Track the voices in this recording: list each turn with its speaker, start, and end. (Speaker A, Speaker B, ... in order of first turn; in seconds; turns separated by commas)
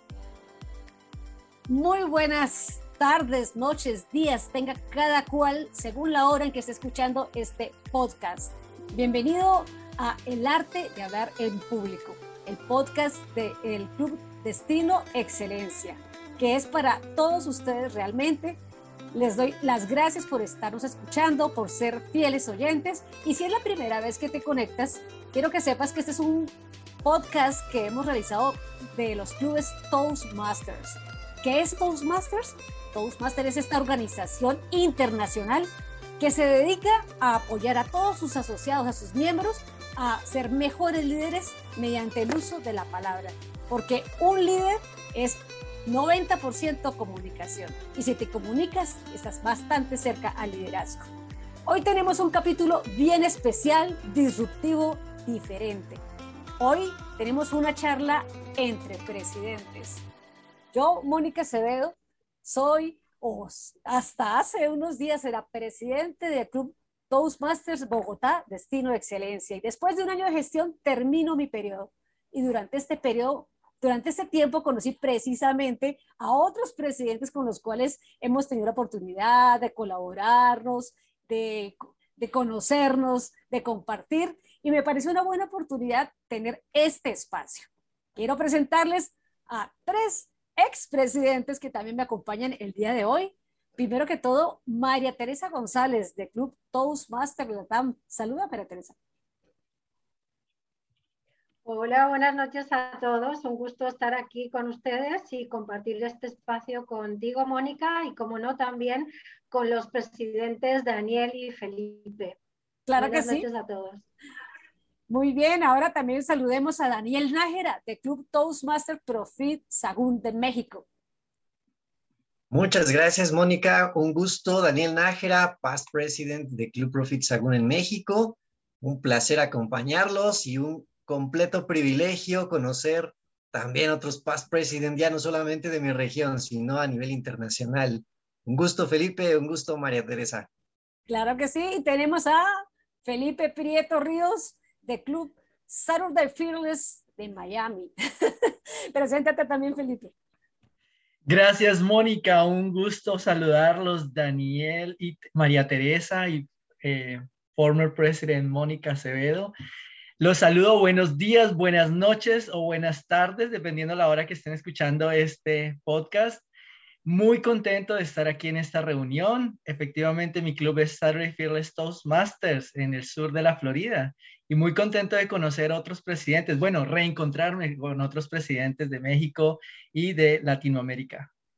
Speaker A: 1.7-18.6, Speaker A: 19.1-26.5, Speaker A: 27.0-51.1, Speaker A: 51.7-56.0, Speaker A: 56.6-60.0, Speaker A: 60.7-99.0, Speaker B: 101.6-112.3, Speaker A: 112.9-113.5, Speaker B: 113.0-114.1, Speaker A: 115.1-120.8, Speaker C: 122.5-140.5, Speaker A: 141.1-150.1, Speaker D: 151.3-159.5, Speaker D: 160.2-166.4, Speaker D: 167.1-181.3